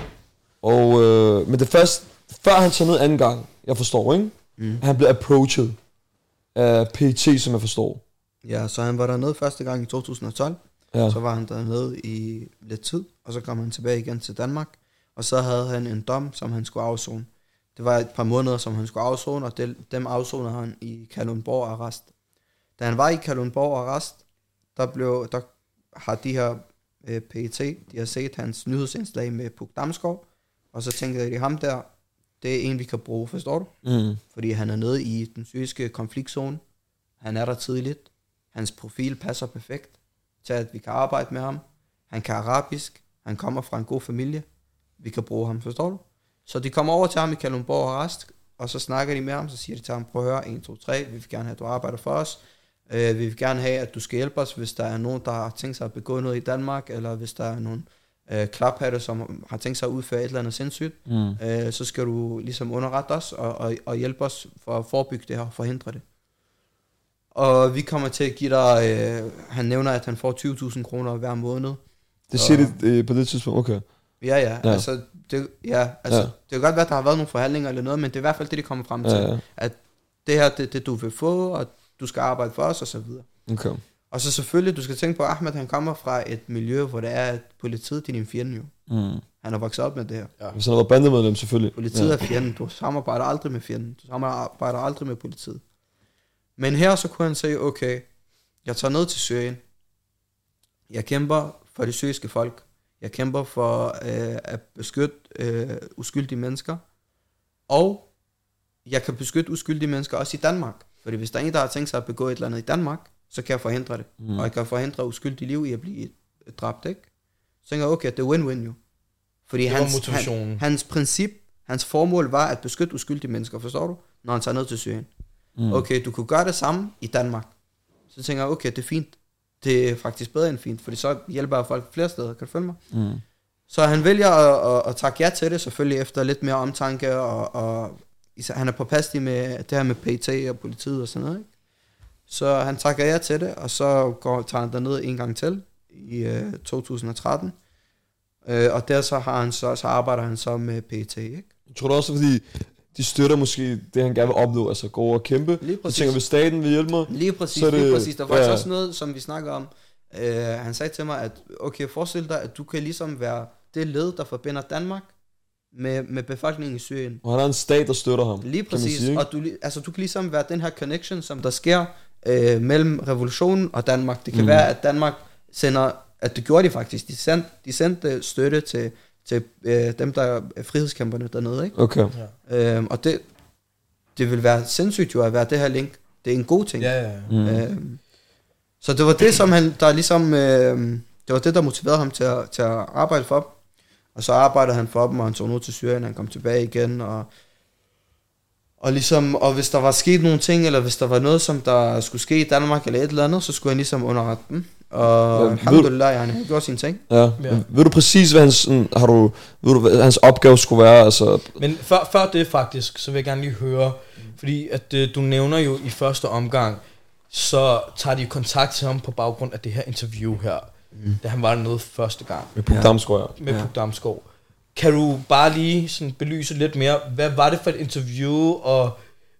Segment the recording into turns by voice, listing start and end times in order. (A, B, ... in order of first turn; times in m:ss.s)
0:00.6-0:05.8 A
0:04.6-0:04.8 B
0:06.5-0:08.0 A
0:08.4-0:22.1 B
0:22.8-0:24.2 B
0:24.7-0:31.9 B
0:32.4-0:33.7 B
0:33.8-0:34.2 A
0:34.3-0:36.6 B
0:37.2-0:44.4 B
0:45.0-1:06.0 B
1:01.1-1:01.4 A
1:07.3-1:11.8 B
1:12.3-1:13.8 A
1:12.3-1:12.8 B
1:14.2-1:23.2 B
1:19.0-1:19.4 A
1:23.5-1:23.8 A
1:24.1-1:28.7 B
1:28.9-1:29.2 A
1:29.4-1:30.3 B
1:30.5-1:32.2 A
1:31.7-1:35.6 B
1:36.6-1:38.1 B
1:38.6-1:39.6 B
1:40.9-1:46.8 B
1:47.7-1:48.1 B
1:48.8-1:57.0 B
1:54.2-1:54.5 A
1:57.6-1:58.8 B
1:59.5-2:05.1 B
1:59.6-2:00.6 C
2:05.6-2:05.8 A
2:05.7-2:07.5 B
2:08.1-2:12.8 B
2:12.9-2:13.2 A
2:13.7-2:21.5 B
2:22.3-2:27.5 B
2:28.4-2:31.5 B
2:31.7-2:38.7 A
2:35.6-2:36.2 B
2:37.1-2:45.1 B
2:45.7-2:47.2 B
2:47.2-2:49.2 A
2:48.4-3:01.8 B
2:54.3-2:54.7 A
3:01.8-3:02.1 A
3:02.5-3:03.2 B
3:04.2-3:06.9 B
3:06.8-3:07.3 C
3:07.3-3:07.6 A
3:07.4-3:08.0 B
3:08.8-3:13.5 B
3:14.1-3:17.3 B
3:18.8-3:27.0 B
3:25.3-3:25.9 A
3:27.1-3:31.6 A
3:27.4-3:27.6 C
3:31.6-3:40.7 C
3:40.9-3:41.2 B
3:41.2-3:42.5 C
3:42.6-3:43.4 A
3:42.7-3:42.9 B
3:43.4-3:49.0 C